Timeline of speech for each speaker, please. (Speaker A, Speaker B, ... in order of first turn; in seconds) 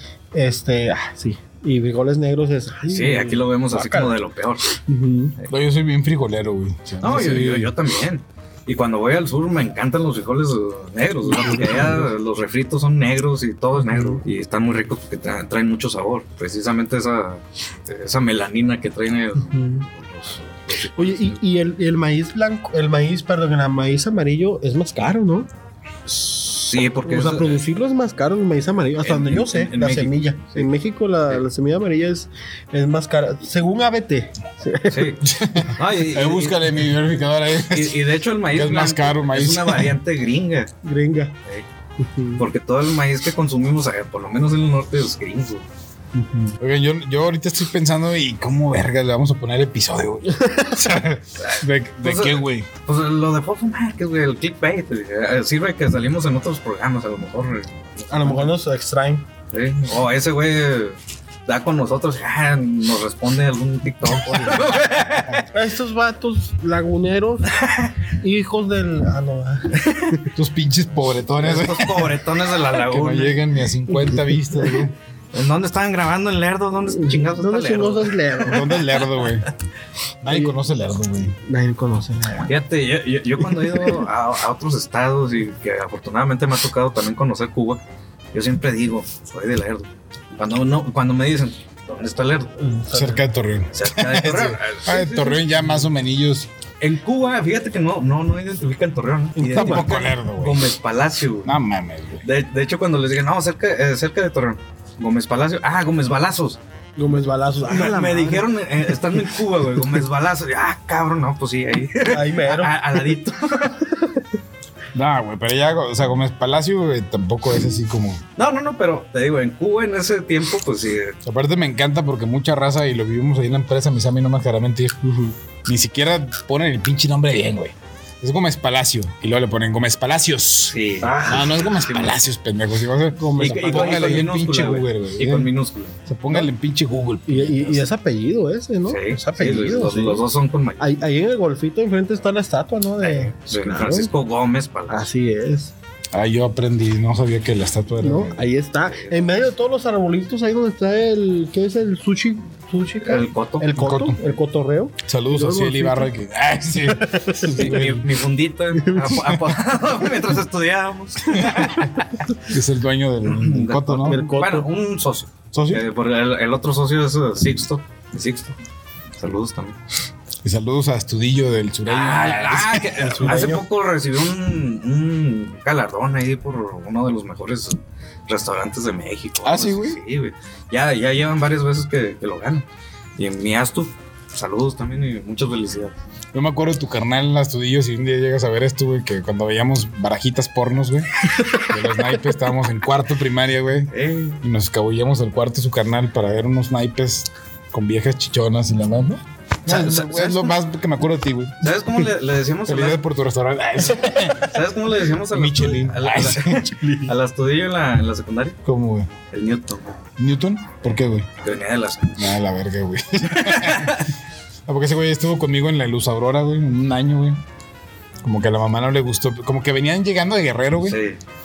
Speaker A: 0.3-4.2, 4.8-5.3, 11.3-12.1, 13.8-14.2, 19.4-19.9, 20.9-25.5, 26.7-35.1, 40.8-41.4, 42.0-42.4, 46.1-46.6, 50.3-50.8, 58.1-59.2, 65.5-70.3, 73.9-74.8, 76.9-78.7, 80.3-80.5, 81.4-82.5, 83.6-84.0, 92.6-93.2, 99.3-99.9, 107.0-108.5, 112.1-113.1, 113.9-114.2, 125.0-125.3, 133.1-134.2, 137.3-140.2, 140.8-144.1, 144.9-145.7, 148.0-156.1, 156.8-157.9, 158.8-159.5, 161.4-161.8, 164.1-164.7, 173.0-173.6, 191.3-191.7, 206.4-207.1
Speaker B: 2.9-4.7, 7.0-21.4, 26.1-27.6, 29.0-30.7, 34.9-36.7, 37.7-40.7, 42.4-45.6, 51.4-58.6, 59.5-65.5, 67.6-67.9, 69.8-70.1, 71.4-73.4, 75.3-79.3, 82.5-87.8, 88.3-92.5, 93.7-95.5, 96.8-101.6, 102.2-106.6, 107.2-113.9, 118.4-121.2, 130.7-132.2, 133.4-136.0, 138.9-141.0, 143.0-145.1, 148.8-149.3, 153.0-153.7, 157.5-162.3, 163.2-168.5, 169.2-169.8, 171.8-182.7, 183.2-185.9, 193.9-194.4, 199.7-200.5, 201.6-203.0, 204.4-208.6, 209.3-210.0, 211.4-212.3, 213.3-214.1, 220.8-221.2
Speaker C: 5.5-7.7, 35.2-40.0, 46.6-52.7, 70.3-72.2, 72.7-74.9, 78.4-79.5, 80.2-81.3, 92.9-96.5, 99.4-100.7, 101.4-102.2, 114.9-118.2, 121.2-125.0, 125.6-135.5, 136.1-137.9, 146.1-148.5, 153.7-154.2, 155.0-158.1, 162.5-164.2, 165.5-165.8, 170.4-173.3, 179.4-180.0, 186.3-201.6, 202.7-204.6, 205.3-206.7, 208.6-209.1, 210.2-211.3, 212.2-214.0, 214.7-217.4, 218.2-221.0